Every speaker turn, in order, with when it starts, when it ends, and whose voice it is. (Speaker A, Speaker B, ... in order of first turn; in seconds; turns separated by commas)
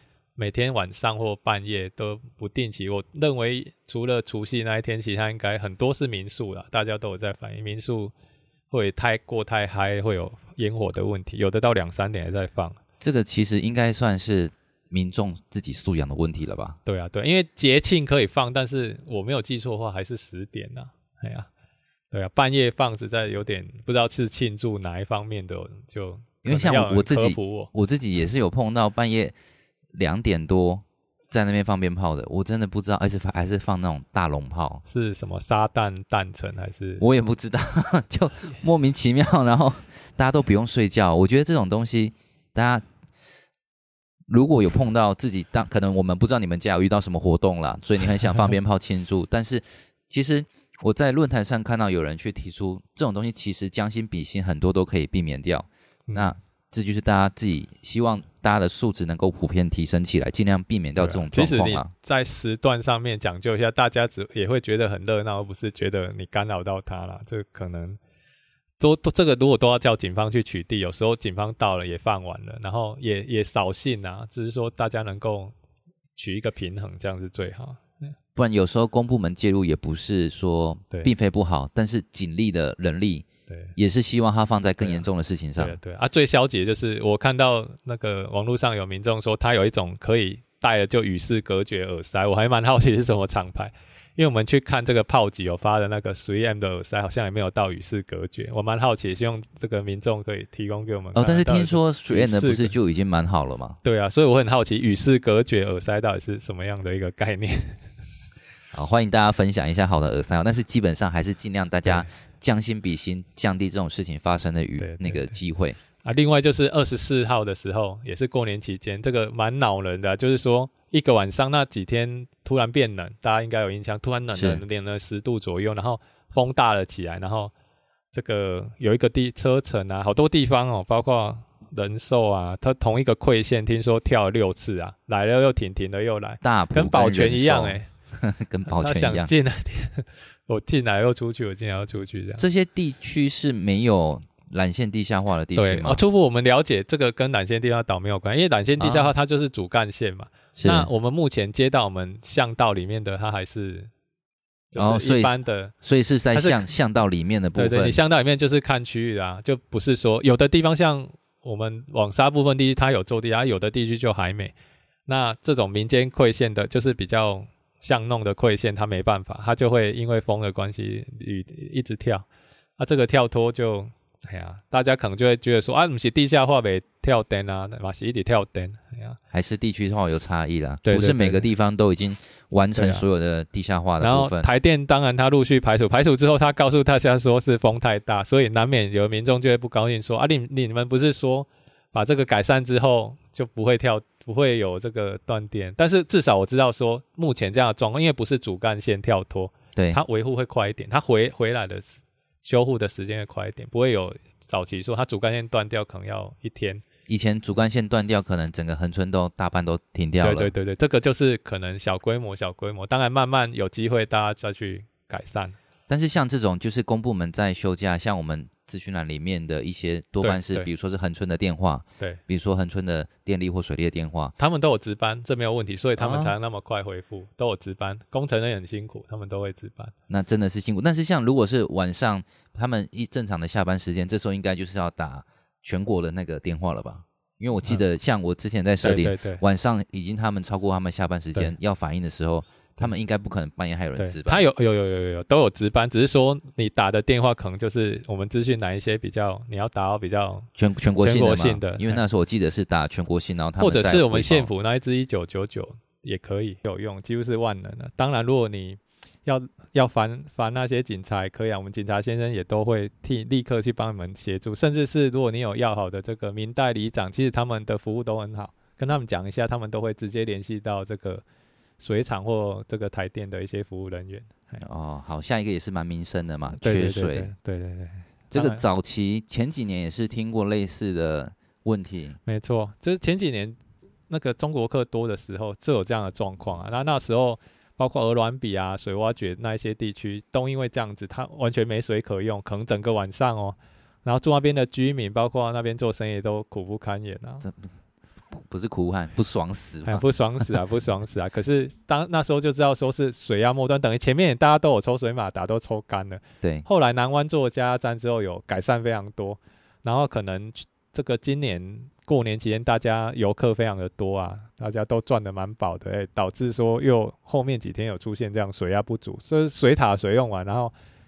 Speaker A: 0.4-8.1, Speaker A: 8.7-12.8, Speaker B: 13.0-16.8, Speaker A: 16.9-21.5, Speaker A: 22.1-27.7, Speaker B: 26.4-29.4, Speaker B: 29.9-34.8, Speaker A: 34.9-37.0, Speaker B: 37.0-42.9, Speaker B: 44.3-61.9, Speaker A: 56.1-56.3, Speaker A: 61.0-68.0, Speaker A: 68.8-75.5, Speaker A: 76.2-78.0, Speaker B: 78.4-85.8, Speaker A: 83.5-83.8, Speaker A: 84.8-85.1, Speaker A: 85.6-102.7, Speaker B: 101.2-103.8, Speaker A: 103.8-107.8, Speaker B: 108.7-115.8, Speaker A: 114.8-115.4, Speaker A: 116.0-127.5, Speaker B: 124.3-124.6, Speaker A: 128.1-137.9, Speaker B: 136.4-139.3, Speaker A: 138.7-142.4, Speaker B: 142.4-146.0, Speaker A: 145.6-153.9, Speaker B: 148.8-149.1, Speaker B: 150.6-150.9, Speaker A: 154.7-155.8, Speaker B: 154.8-158.0, Speaker A: 156.3-156.7, Speaker A: 157.6-164.5, Speaker A: 165.1-172.3, Speaker A: 172.8-179.2, Speaker B: 179.3-184.5, Speaker A: 180.9-181.4, Speaker A: 182.8-183.1, Speaker A: 184.0-206.8, Speaker B: 207.1-210.5, Speaker A: 210.2-215.6, Speaker B: 215.9-224.3, Speaker A: 220.2-220.7, Speaker A: 224.4-229.9, Speaker B: 226.0-226.3, Speaker B: 230.1-244.4, Speaker A: 238.8-239.4, Speaker A: 244.0-250.5, Speaker B: 250.6-254.5, Speaker A: 251.0-252.0, Speaker A: 253.6-271.2, Speaker A: 271.8-274.6, Speaker B: 274.6-277.3, Speaker A: 276.6-278.6, Speaker B: 278.3-282.2, Speaker A: 282.3-283.6, Speaker A: 284.1-297.5, Speaker B: 298.3-300.1, Speaker A: 299.9-320.7